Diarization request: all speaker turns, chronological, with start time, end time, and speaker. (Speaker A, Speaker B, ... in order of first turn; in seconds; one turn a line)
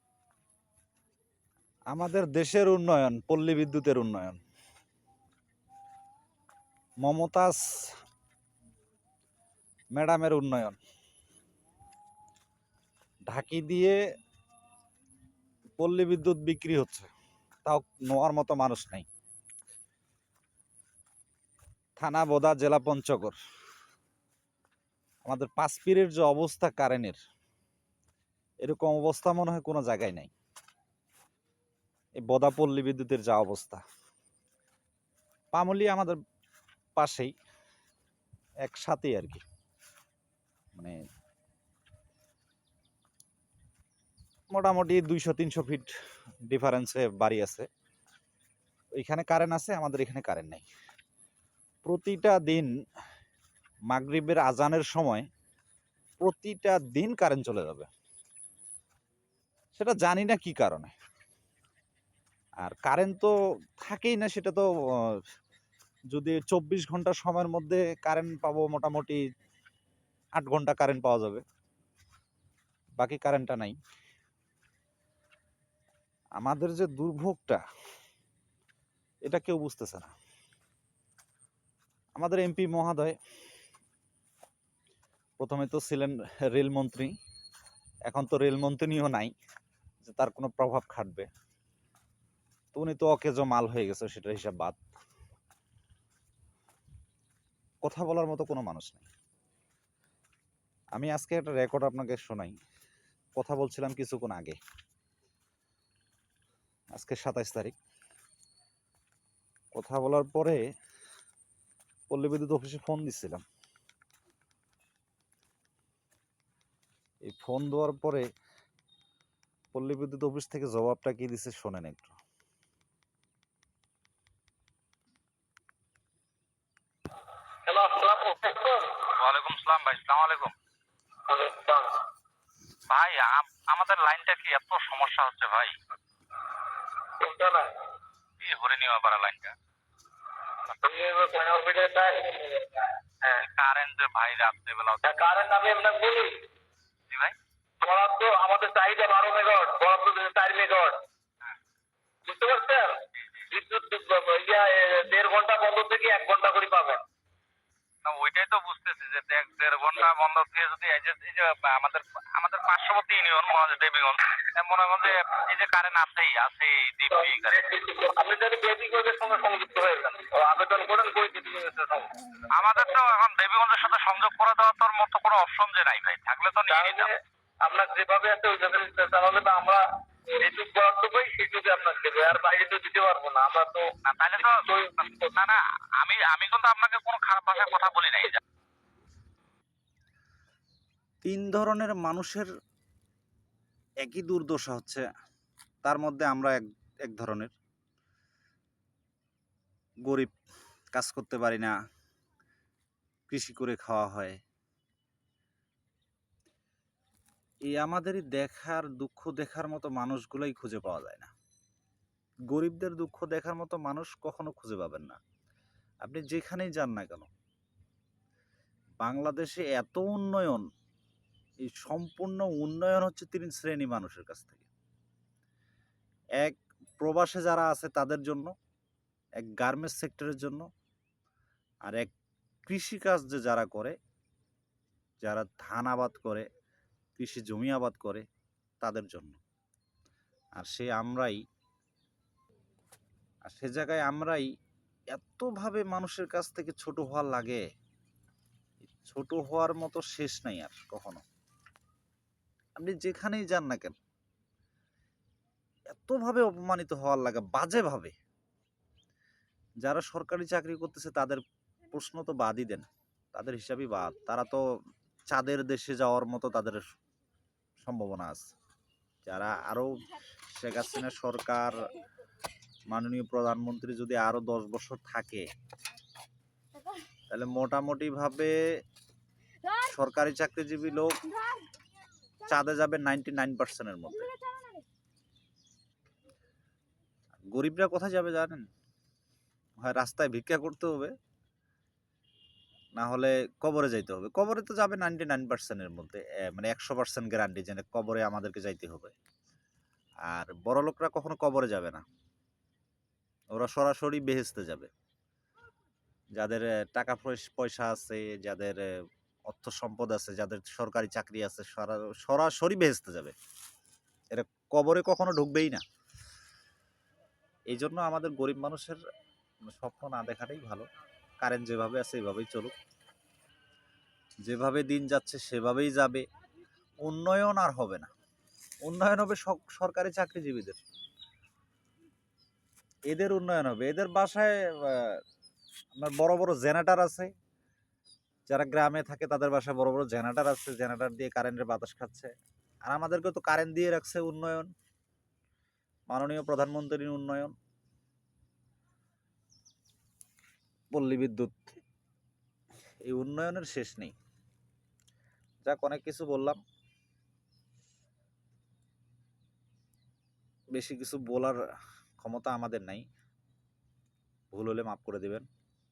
Speaker A: 1.9-4.4
Speaker A: 7.0-7.9
Speaker A: 9.9-10.8
Speaker A: 13.3-14.0
Speaker A: 15.8-17.1
Speaker A: 17.6-19.1
Speaker A: 22.0-23.4
Speaker A: 25.2-27.2
Speaker A: 28.6-30.3
Speaker A: 32.2-33.8
Speaker A: 35.5-36.2
Speaker A: 37.0-37.3
Speaker A: 38.6-39.4
Speaker A: 44.5-45.9
Speaker A: 46.5-47.7
Speaker A: 49.0-50.7
Speaker A: 51.8-52.7
Speaker A: 53.9-55.3
Speaker A: 56.2-57.9
Speaker A: 59.7-60.9
Speaker A: 62.6-65.2
Speaker A: 66.1-69.2
Speaker A: 70.4-71.4
Speaker A: 73.0-73.8
Speaker A: 76.4-77.6
Speaker A: 79.2-80.1
Speaker A: 82.2-83.2
Speaker A: 85.4-87.1
Speaker A: 88.1-89.3
Speaker A: 90.0-91.3
Speaker A: 92.7-94.8
Speaker A: 97.8-99.1
Speaker A: 101.0-102.5
Speaker A: 103.4-104.6
Speaker A: 106.9-107.8
Speaker A: 109.8-110.6
Speaker A: 112.1-113.4
Speaker A: 117.2-118.2
Speaker A: 119.7-122.1
Speaker B: 127.7-128.9
Speaker C: 129.2-130.6
Speaker B: 131.3-132.0
Speaker C: 132.9-135.8
Speaker B: 137.2-137.7
Speaker C: 138.4-139.6
Speaker B: 140.8-143.5
Speaker C: 143.4-145.1
Speaker B: 145.0-146.4
Speaker C: 147.1-147.3
Speaker B: 147.8-151.0
Speaker B: 152.2-157.0
Speaker C: 153.1-153.5
Speaker C: 158.0-167.6
Speaker B: 167.1-172.2
Speaker C: 172.5-177.1
Speaker B: 176.7-177.1
Speaker B: 177.6-185.6
Speaker C: 184.0-188.4
Speaker A: 191.2-192.5
Speaker A: 194.0-195.1
Speaker A: 195.8-197.5
Speaker A: 200.1-200.3
Speaker A: 200.9-201.8
Speaker A: 203.3-204.4
Speaker A: 207.7-211.3
Speaker A: 212.5-215.2
Speaker A: 216.0-217.3
Speaker A: 219.0-220.7
Speaker A: 221.6-224.7
Speaker A: 226.4-228.5
Speaker A: 229.4-230.7
Speaker A: 231.8-232.1
Speaker A: 232.7-233.9
Speaker A: 235.2-236.5
Speaker A: 237.2-238.2
Speaker A: 238.8-239.4
Speaker A: 240.6-241.4
Speaker A: 243.4-244.5
Speaker A: 245.1-247.6
Speaker A: 249.0-251.2
Speaker A: 252.8-253.9
Speaker A: 255.9-258.1
Speaker A: 259.8-264.6
Speaker A: 265.3-266.9
Speaker A: 267.8-268.4
Speaker A: 269.2-271.9
Speaker A: 272.9-275.5
Speaker A: 277.3-278.5
Speaker A: 279.7-281.2
Speaker A: 282.4-284.3
Speaker A: 287.5-288.6
Speaker A: 289.8-291.1
Speaker A: 292.9-299.1
Speaker A: 300.2-302.0
Speaker A: 303.5-304.9
Speaker A: 306.4-308.9
Speaker A: 309.5-313.4
Speaker A: 314.3-315.8
Speaker A: 317.7-319.0
Speaker A: 319.7-320.9
Speaker A: 321.4-322.8
Speaker A: 324.4-326.2
Speaker A: 327.0-328.1
Speaker A: 328.8-330.8
Speaker A: 333.1-335.2
Speaker A: 336.0-337.3
Speaker A: 338.5-342.3
Speaker A: 342.9-344.7
Speaker A: 346.1-347.5
Speaker A: 350.9-351.6
Speaker A: 353.1-354.1
Speaker A: 355.6-356.6
Speaker A: 360.7-361.6
Speaker A: 362.2-363.1
Speaker A: 364.5-365.4